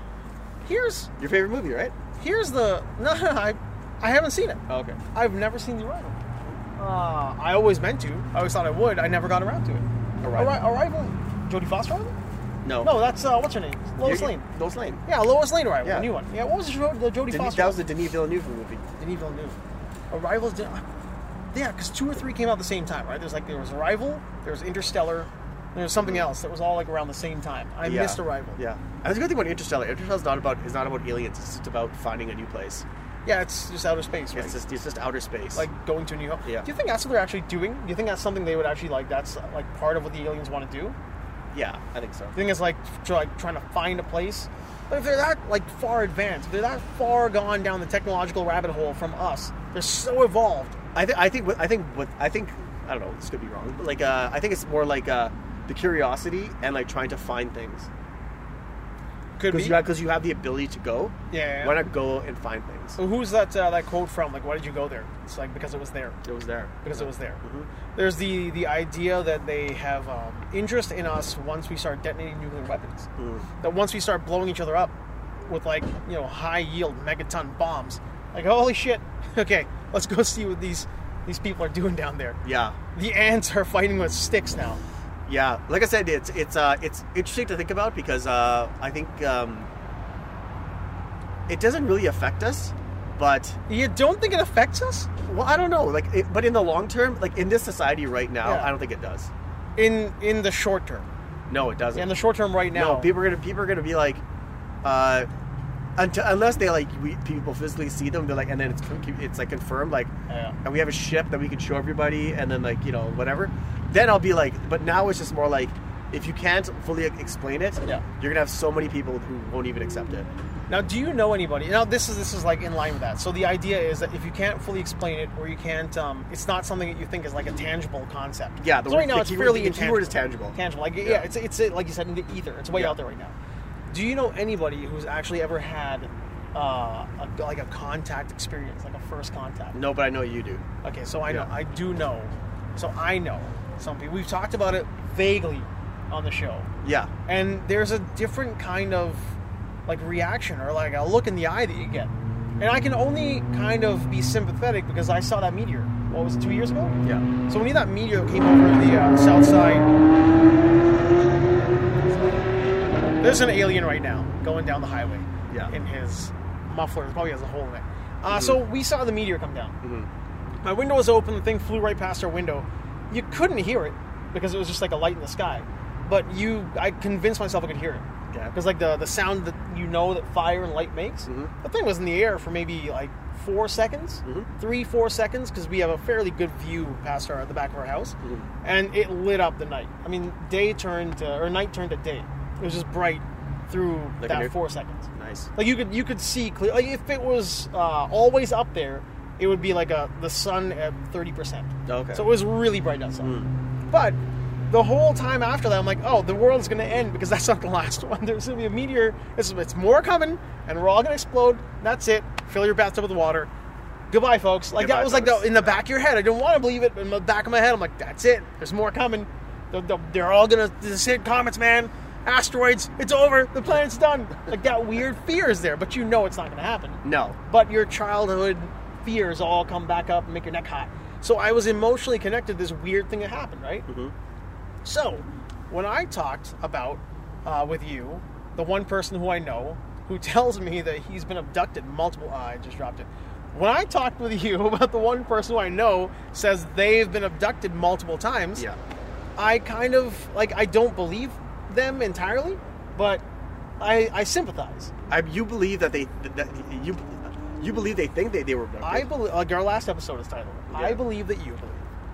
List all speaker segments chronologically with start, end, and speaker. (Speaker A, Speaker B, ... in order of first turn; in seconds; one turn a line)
Speaker A: 0.6-1.1
Speaker B: 1.2-1.9
Speaker A: 2.2-4.6
Speaker B: 4.7-5.0
Speaker A: 5.1-6.2
Speaker A: 6.8-12.1
Speaker B: 10.2-10.5
Speaker B: 12.6-12.9
Speaker A: 12.8-14.4
Speaker B: 14.0-15.0
Speaker A: 15.0-17.8
Speaker B: 15.8-16.1
Speaker B: 17.3-18.8
Speaker A: 19.0-19.6
Speaker A: 20.1-20.9
Speaker A: 21.5-28.6
Speaker B: 26.0-26.3
Speaker B: 27.8-32.8
Speaker A: 33.2-34.6
Speaker B: 34.3-35.6
Speaker A: 35.5-41.0
Speaker B: 41.5-42.4
Speaker A: 42.3-50.8
Speaker B: 50.9-57.9
Speaker A: 59.4-59.8
Speaker B: 59.5-63.0
Speaker A: 61.3-61.8
Speaker A: 63.0-66.2
Speaker B: 66.2-67.7
Speaker A: 66.8-67.4
Speaker A: 67.9-73.1
Speaker B: 73.2-73.5
Speaker A: 73.6-74.9
Speaker A: 75.5-82.4
Speaker B: 82.4-82.8
Speaker A: 82.9-84.8
Speaker B: 85.3-89.7
Speaker B: 91.5-93.6
Speaker A: 93.7-95.1
Speaker B: 95.2-99.3
Speaker A: 98.4-98.7
Speaker A: 99.8-101.1
Speaker B: 101.5-102.1
Speaker A: 101.9-103.1
Speaker B: 102.7-104.2
Speaker B: 104.8-105.3
Speaker B: 106.0-110.1
Speaker A: 110.3-110.5
Speaker B: 110.6-120.3
Speaker A: 120.7-133.3
Speaker B: 128.6-131.3
Speaker A: 133.9-139.8
Speaker B: 139.7-140.6
Speaker A: 140.8-146.7
Speaker B: 146.8-147.1
Speaker A: 147.3-149.3
Speaker A: 149.9-159.9
Speaker B: 162.0-162.5
Speaker A: 163.2-169.8
Speaker B: 168.3-168.6
Speaker B: 169.8-170.1
Speaker A: 170.6-203.3
Speaker B: 181.3-181.5
Speaker B: 188.2-188.5
Speaker B: 194.2-194.5
Speaker B: 195.1-195.5
Speaker B: 201.9-202.3
Speaker B: 203.2-203.5
Speaker A: 203.9-204.2
Speaker A: 204.7-213.5
Speaker A: 214.1-233.8
Speaker B: 214.8-215.8
Speaker B: 227.0-227.4
Speaker B: 233.9-234.1
Speaker A: 234.8-248.7
Speaker A: 249.4-253.2
Speaker A: 253.8-254.9
Speaker B: 255.1-259.1
Speaker A: 258.8-261.8
Speaker B: 260.7-261.0